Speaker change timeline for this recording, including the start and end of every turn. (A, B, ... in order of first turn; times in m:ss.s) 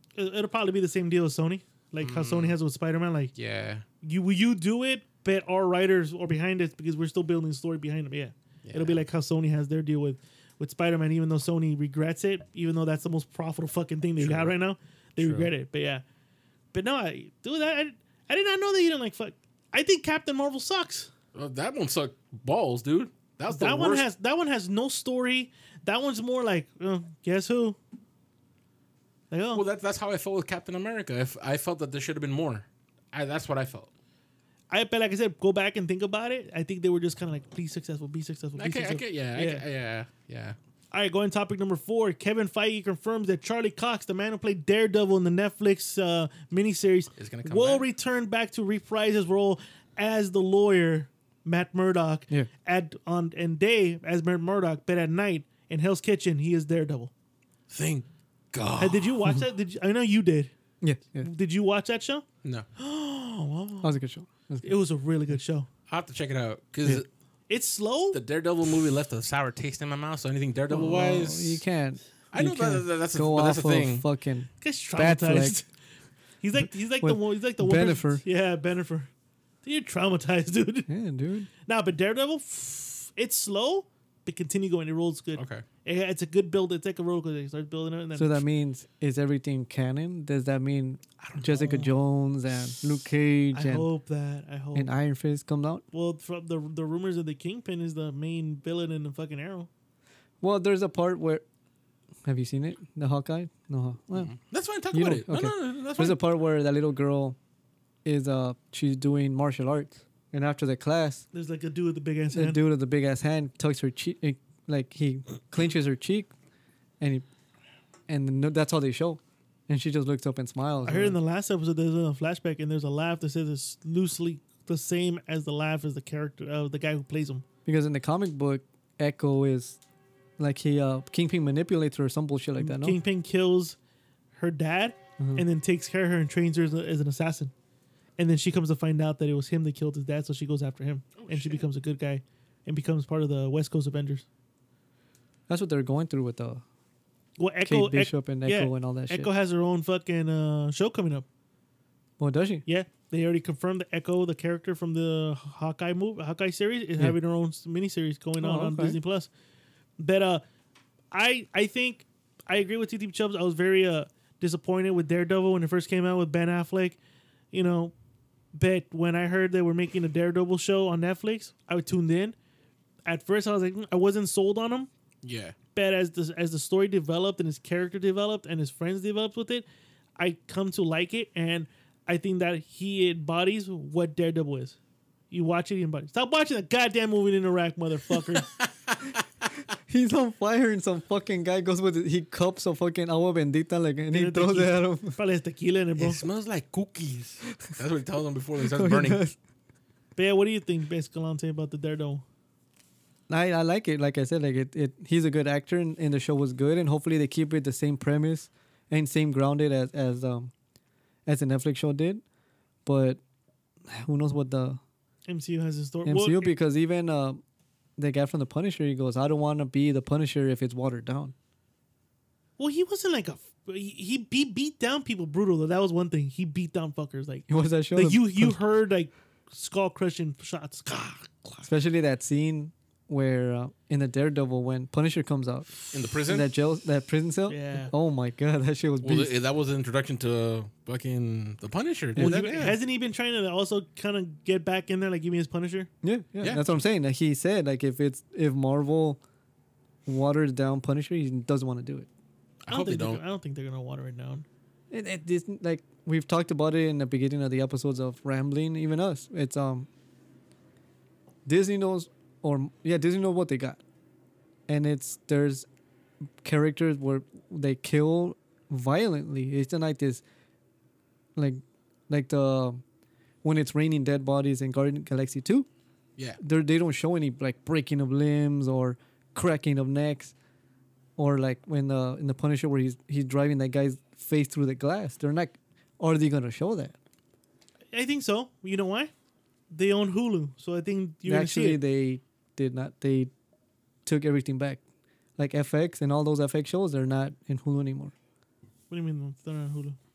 0:00.2-0:03.3 A
0:02.0-0:02.6 B
0:03.4-0:03.8 B
0:04.0-0:16.0 A
0:08.6-0:09.0 B
0:14.2-0:14.5 B
0:15.2-0:15.5 B
0:16.7-0:21.1 A
0:21.3-0:24.0 B
0:23.5-0:27.8 A
0:29.3-0:29.6 A
0:29.5-0:33.9 B
0:34.7-0:39.6 A
0:38.6-0:40.6 B
0:40.9-0:57.1 A
0:47.2-0:47.9 B
0:57.7-0:59.2 B
0:58.8-1:00.5 A
1:00.8-1:01.3 C
1:01.2-1:02.2 A
1:02.8-1:04.0 A
1:03.8-1:04.7 C
1:04.6-1:05.7 A
1:05.9-1:07.1 B
1:07.5-1:08.2 A
1:08.1-1:11.6 B
1:10.7-1:15.6 C
1:12.3-1:14.0 B
1:14.6-1:15.7 A
1:16.4-1:19.1 A
1:17.0-1:18.2 C
1:19.6-1:20.9 A
1:20.9-1:21.5 C
1:21.7-1:28.4 A
1:25.4-1:25.6 B
1:28.2-1:33.9 C
1:31.2-1:31.9 A
1:33.5-1:34.9 A
1:34.8-1:35.8 C
1:35.9-1:39.7 A
1:40.4-1:41.4 C
1:42.2-1:44.3 C
1:44.2-1:46.2 B
1:44.9-1:47.4 C
1:48.0-1:51.3 C
1:51.3-1:52.6 A
1:52.3-1:56.3 C
1:57.0-1:57.2 C
1:58.1-2:01.2 C
2:00.9-2:07.4 A
2:07.6-2:09.8 C
2:10.4-2:13.0 C
2:12.6-2:13.8 A
2:14.3-2:17.5 A
2:15.2-2:15.4 C
2:18.2-2:24.2 A
2:21.2-2:21.6 B
2:25.5-2:26.6 C
2:27.4-2:31.3 A
2:27.6-2:29.3 C
2:32.2-2:32.6 C
2:32.7-2:39.3 A
2:38.4-2:39.0 C
2:40.0-2:40.4 A
2:41.1-2:47.0 A
2:47.5-2:47.9 A
2:48.5-2:52.4 A
2:53.1-2:54.9 A
2:55.2-2:55.6 B
2:55.8-2:59.7 A
3:00.2-3:04.8 A
3:05.3-3:08.5 A
3:08.6-3:09.0 B
3:09.9-3:15.2 C
3:14.1-3:16.2 A
3:16.0-3:19.2 B
3:18.7-3:19.4 C
3:20.2-3:22.2 A
3:23.3-3:30.5 C
3:31.3-3:32.2 C
3:32.9-3:33.2 C
3:33.9-3:34.8 C
3:35.3-3:36.5 A
3:36.0-3:37.4 C
3:38.0-3:41.4 C
3:42.6-3:51.7 A
3:47.5-3:48.6 C
3:51.7-3:59.3 C
3:55.9-3:56.5 B
3:57.5-3:57.9 A
3:59.0-4:02.8 B
4:02.2-4:02.4 C
4:02.2-4:05.9 A
4:06.0-4:09.2 C
4:06.4-4:06.7 B
4:10.1-4:12.1 C
4:12.6-4:13.2 B
4:12.7-4:14.5 A
4:14.9-4:19.9 C
4:21.5-4:23.8 C
4:24.7-4:25.7 C
4:26.4-4:30.2 C
4:31.4-4:32.8 C
4:33.4-4:35.7 C
4:36.4-4:40.3 C
4:41.2-4:47.0 C
4:47.9-4:49.1 A
4:49.7-4:51.8 A
4:51.3-4:53.3 C
4:54.0-4:54.8 C
4:55.4-4:58.1 C
4:58.9-5:00.0 A